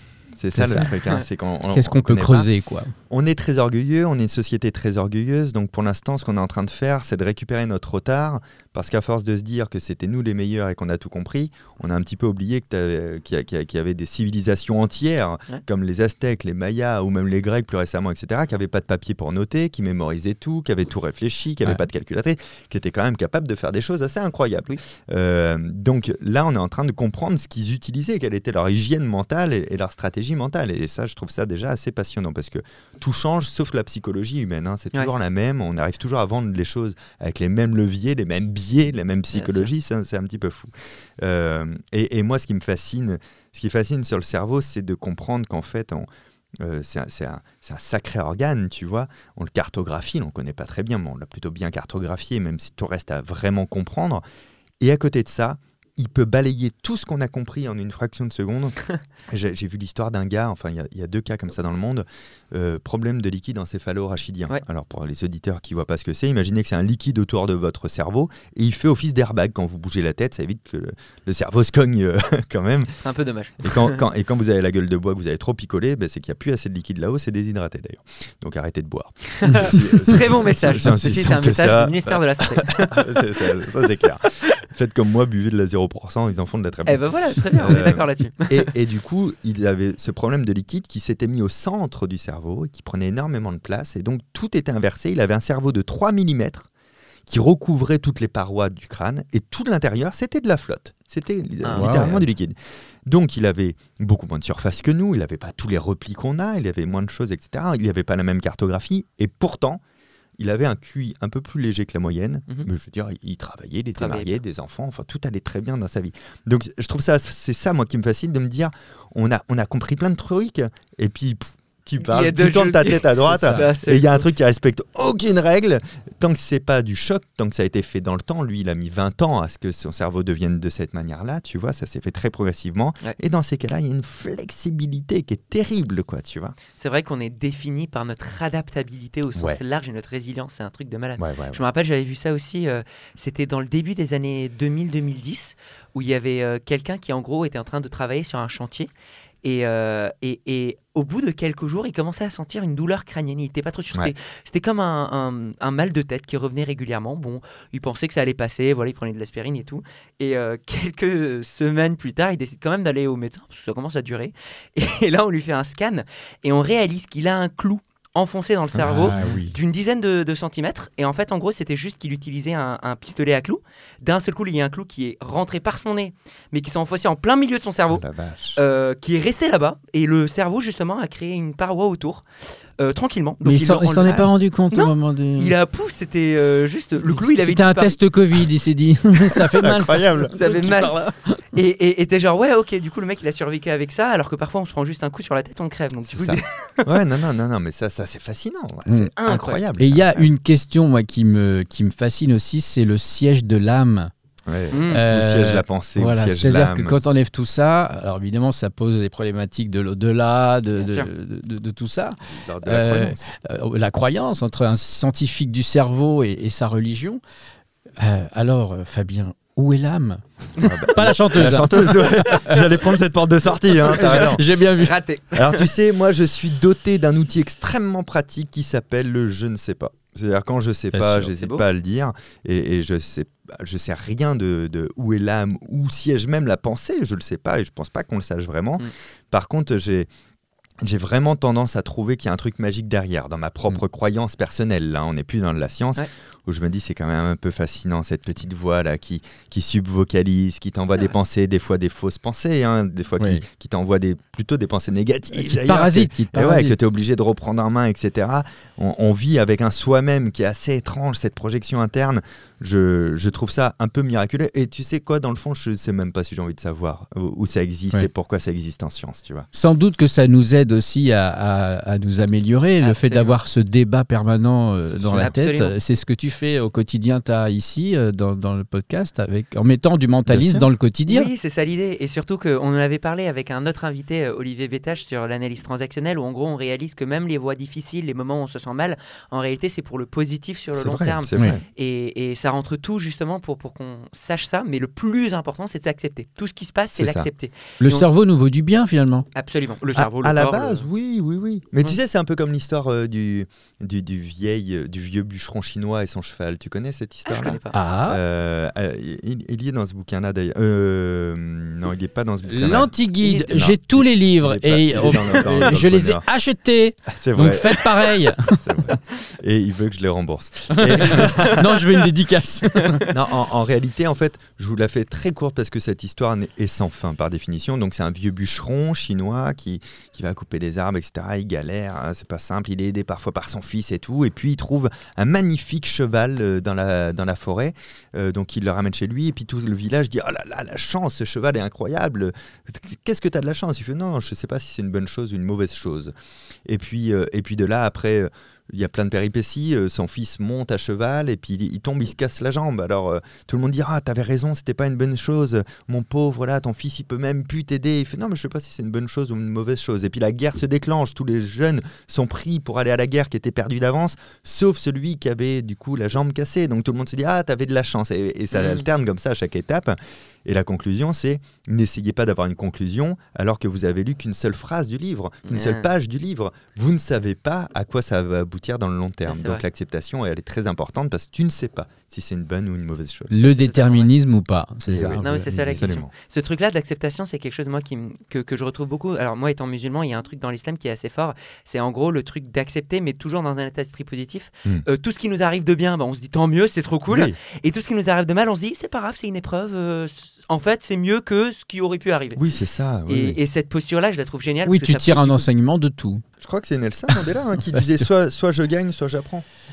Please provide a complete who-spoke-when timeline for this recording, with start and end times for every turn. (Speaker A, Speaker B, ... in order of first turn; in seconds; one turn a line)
Speaker A: 0.4-2.5
Speaker B: 0.6-0.9
Speaker B: 1.7-2.9
Speaker A: 3.1-46.1
Speaker C: 39.3-39.7
Speaker A: 46.6-54.2
Speaker A: 54.8-73.0
Speaker C: 72.9-74.0
Speaker A: 73.6-96.7
Speaker C: 79.4-83.5
Speaker C: 86.9-88.7
Speaker A: 97.3-109.8
Speaker C: 101.6-102.1
Speaker B: 101.7-102.3
Speaker A: 110.4-136.6
Speaker C: 114.0-114.4
Speaker C: 122.0-124.3
Speaker C: 136.8-148.9
Speaker A: 139.3-139.6
Speaker A: 141.2-141.6
Speaker C: 149.4-178.1
Speaker A: 168.8-169.4
Speaker B: 168.8-169.6
Speaker A: 177.9-178.6
Speaker C: 178.6-182.2
Speaker C: 182.8-188.0
Speaker B: 183.4-185.6
Speaker B: 187.0-191.4
Speaker A: 189.6-190.7
Speaker C: 190.3-191.0
Speaker C: 191.5-197.1
Speaker A: 196.1-200.3
Speaker B: 198.9-199.1
Speaker C: 199.2-199.6
Speaker B: 199.8-204.1
Speaker A: 204.5-207.0
Speaker C: 204.7-205.0
Speaker B: 204.9-217.2
Speaker C: 210.8-211.1
Speaker A: 212.2-213.2
Speaker B: 218.0-220.2
Speaker A: 220.6-224.5
Speaker B: 220.9-222.7
Speaker B: 223.8-224.9
Speaker C: 223.9-225.7
Speaker A: 225.3-240.1
Speaker B: 230.9-231.3
Speaker C: 231.4-231.7
Speaker A: 240.8-269.5
Speaker B: 253.2-253.4
Speaker B: 255.3-256.8
Speaker B: 269.5-281.3
Speaker C: 272.8-273.4
Speaker A: 274.9-275.3
Speaker C: 275.1-275.8
Speaker A: 280.3-280.7
Speaker C: 281.1-298.1
Speaker A: 290.8-291.6
Speaker A: 297.0-297.3
Speaker B: 297.8-299.3
Speaker C: 299.4-300.9
Speaker A: 299.9-312.9
Speaker C: 307.3-307.8
Speaker B: 307.7-308.2
Speaker B: 312.5-318.9
Speaker C: 313.2-313.7
Speaker A: 313.5-316.2
Speaker C: 314.9-315.5
Speaker A: 317.1-321.7
Speaker B: 320.7-323.1
Speaker C: 321.1-321.7
Speaker A: 323.1-346.1
Speaker A: 346.7-383.4
Speaker C: 368.5-368.9
Speaker C: 375.5-375.9
Speaker C: 379.3-379.6
Speaker B: 383.3-385.8
Speaker C: 383.4-384.1
Speaker A: 384.9-386.1
Speaker C: 385.2-402.4
Speaker A: 397.1-397.4
Speaker A: 402.4-403.4
Speaker C: 403.1-405.5
Speaker B: 404.7-406.2
Speaker A: 406.4-409.4